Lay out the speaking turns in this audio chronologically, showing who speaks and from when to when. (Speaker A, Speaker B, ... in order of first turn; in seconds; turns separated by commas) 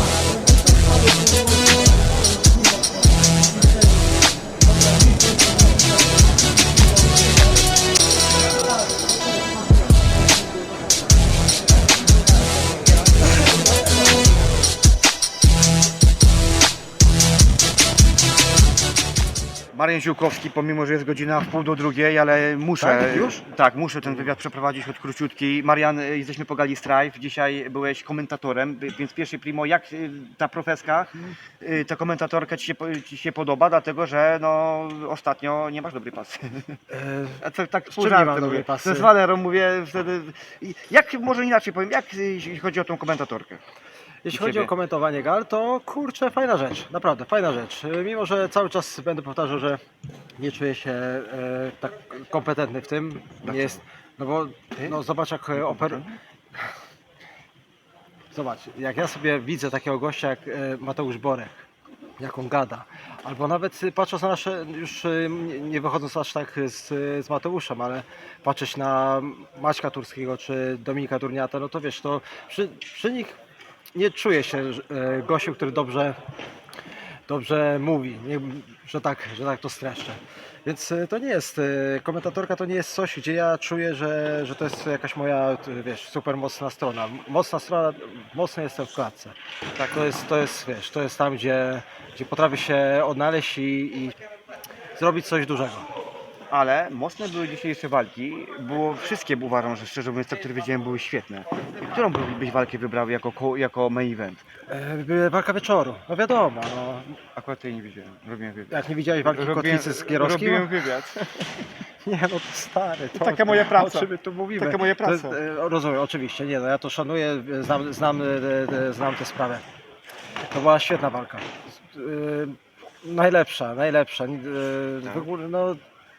Speaker A: 19.7-36.8, Speaker B: 22.8-23.4, Speaker B: 36.9-39.1, Speaker A: 37.4-43.6, Speaker B: 44.2-49.8, Speaker A: 44.3-44.7, Speaker B: 50.4-56.0, Speaker A: 53.4-53.8, Speaker A: 55.5-56.2, Speaker B: 58.3-61.6, Speaker B: 62.2-73.3, Speaker B: 73.9-76.2, Speaker B: 77.3-89.3, Speaker A: 89.8-90.1, Speaker B: 89.9-94.2, Speaker B: 95.0-95.8, Speaker A: 96.5-104.4, Speaker B: 104.7-107.2, Speaker A: 107.3-111.6, Speaker B: 108.7-110.7, Speaker B: 112.0-119.6, Speaker A: 113.1-115.4, Speaker B: 120.5-125.8